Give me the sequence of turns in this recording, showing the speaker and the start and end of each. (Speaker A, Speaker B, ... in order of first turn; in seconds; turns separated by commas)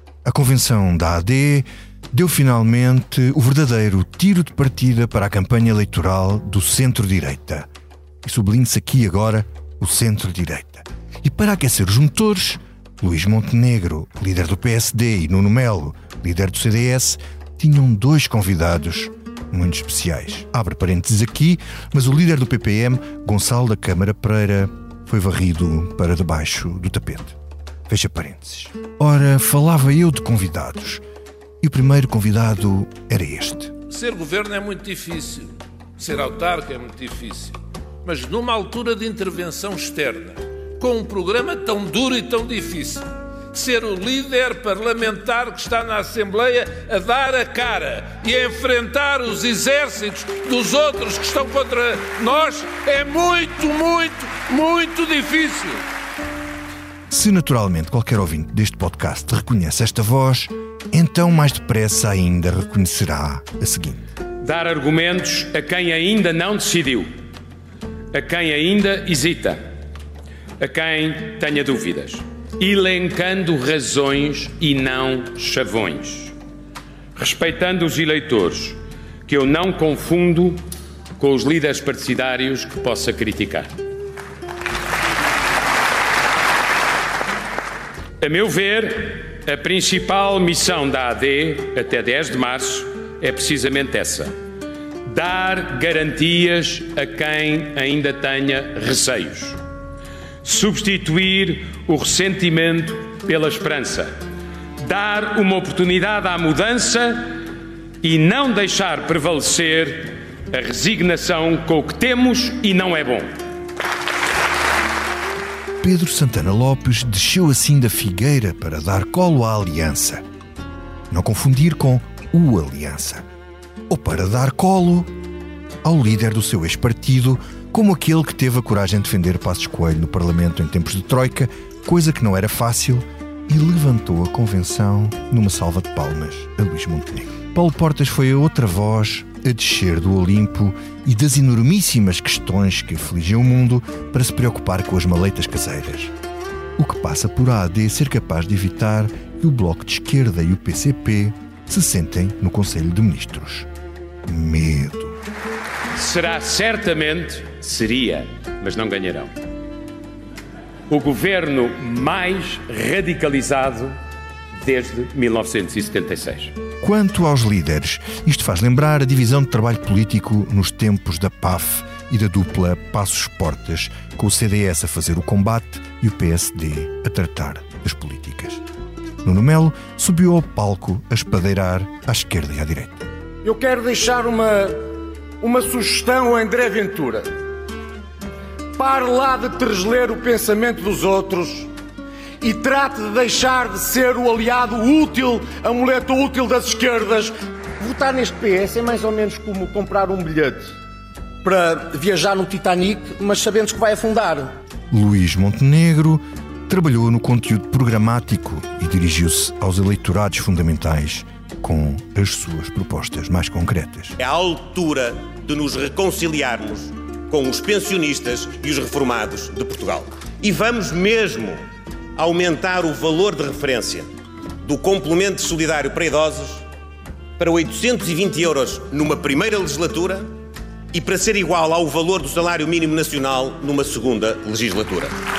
Speaker A: 0.2-7.7, Speaker A: 8.2-27.4, Speaker A: 27.9-31.0, Speaker A: 31.6-33.7, Speaker B: 33.9-55.8, Speaker A: 57.1-64.0, Speaker C: 64.4-67.1, Speaker C: 68.1-69.7, Speaker C: 70.6-76.3, Speaker C: 77.2-80.7, Speaker C: 81.2-83.7, Speaker C: 88.2-94.3, Speaker C: 95.0-99.6, Speaker C: 100.4-104.1, Speaker C: 104.8-107.3, Speaker C: 108.0-113.3, Speaker A: 115.8-120.2, Speaker A: 121.1-123.3, Speaker A: 123.9-125.1, Speaker A: 125.8-146.1, Speaker A: 146.8-153.7, Speaker A: 154.2-155.2, Speaker C: 155.9-159.3, Speaker C: 160.9-163.9, Speaker C: 164.6-166.5, Speaker A: 166.8-178.6, Speaker A: 179.2-183.1, Speaker D: 183.4-184.8, Speaker D: 185.4-187.3, Speaker D: 188.8-191.7, Speaker D: 192.4-200.7, Speaker D: 201.4-204.5, Speaker A: 204.9-214.2, Speaker E: 214.2-221.6, Speaker E: 222.2-224.1, Speaker E: 224.6-226.6, Speaker E: 227.4-230.3, Speaker E: 230.9-235.2